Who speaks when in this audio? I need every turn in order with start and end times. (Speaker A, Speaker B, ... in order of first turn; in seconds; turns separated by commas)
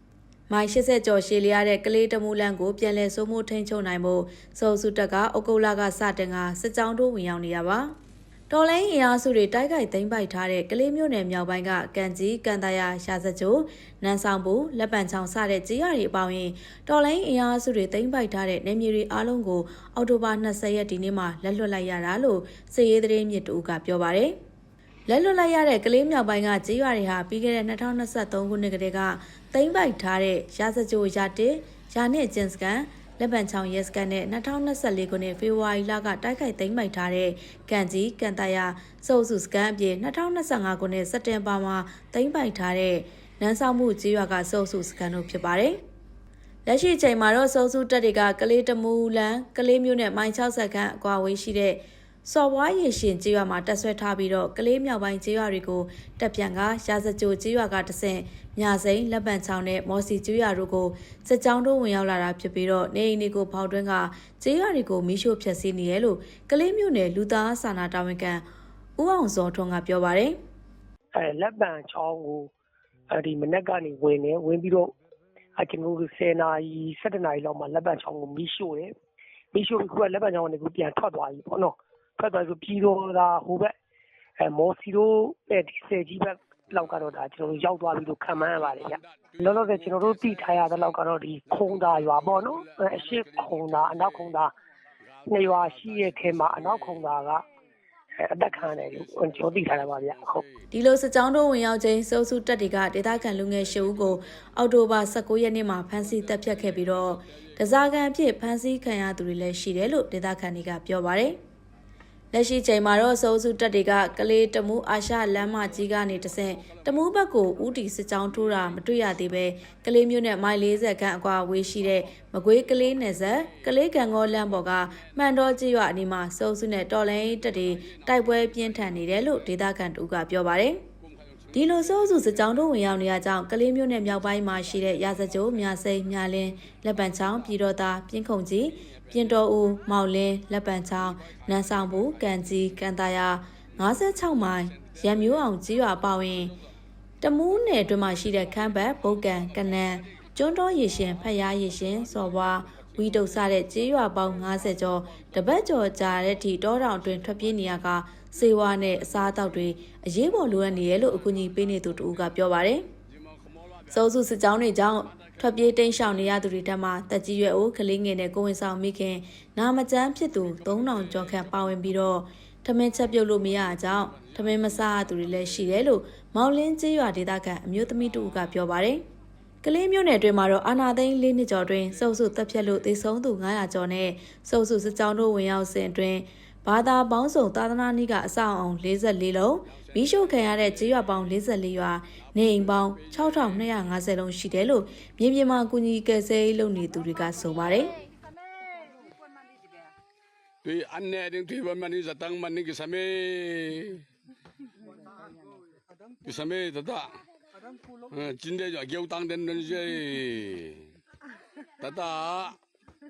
Speaker A: 0.5-7.9, Speaker A: 8.5-24.3, Speaker A: 25.1-45.8, Speaker A: 46.6-68.4, Speaker A: 69.0-70.4, Speaker B: 71.1-72.5, Speaker B: 73.1-74.9, Speaker B: 75.6-78.9, Speaker B: 79.5-83.7, Speaker B: 84.4-94.5, Speaker C: 88.3-94.4, Speaker C: 95.0-97.4, Speaker B: 95.3-97.4, Speaker B: 98.2-100.4, Speaker C: 98.5-100.7, Speaker A: 100.7-111.4, Speaker C: 103.1-104.4, Speaker C: 105.9-107.7, Speaker A: 112.3-130.8, Speaker C: 115.5-119.3, Speaker C: 121.8-125.4, Speaker C: 127.2-129.6, Speaker C: 131.0-133.3, Speaker A: 131.5-146.5, Speaker C: 134.0-136.0, Speaker C: 136.9-137.6, Speaker C: 138.8-139.7, Speaker C: 140.8-142.8, Speaker C: 143.8-146.5, Speaker A: 147.2-162.8, Speaker C: 148.3-150.1, Speaker C: 150.7-159.7, Speaker C: 160.4-162.4, Speaker C: 163.1-164.3, Speaker A: 163.9-179.0, Speaker C: 165.1-166.4, Speaker C: 170.3-172.0, Speaker C: 173.3-175.8, Speaker C: 178.1-178.4, Speaker A: 179.6-197.9, Speaker C: 181.9-182.9, Speaker C: 189.7-191.4, Speaker C: 192.2-193.9, Speaker C: 200.6-204.0, Speaker C: 206.2-207.2, Speaker C: 208.1-210.9, Speaker C: 211.8-212.6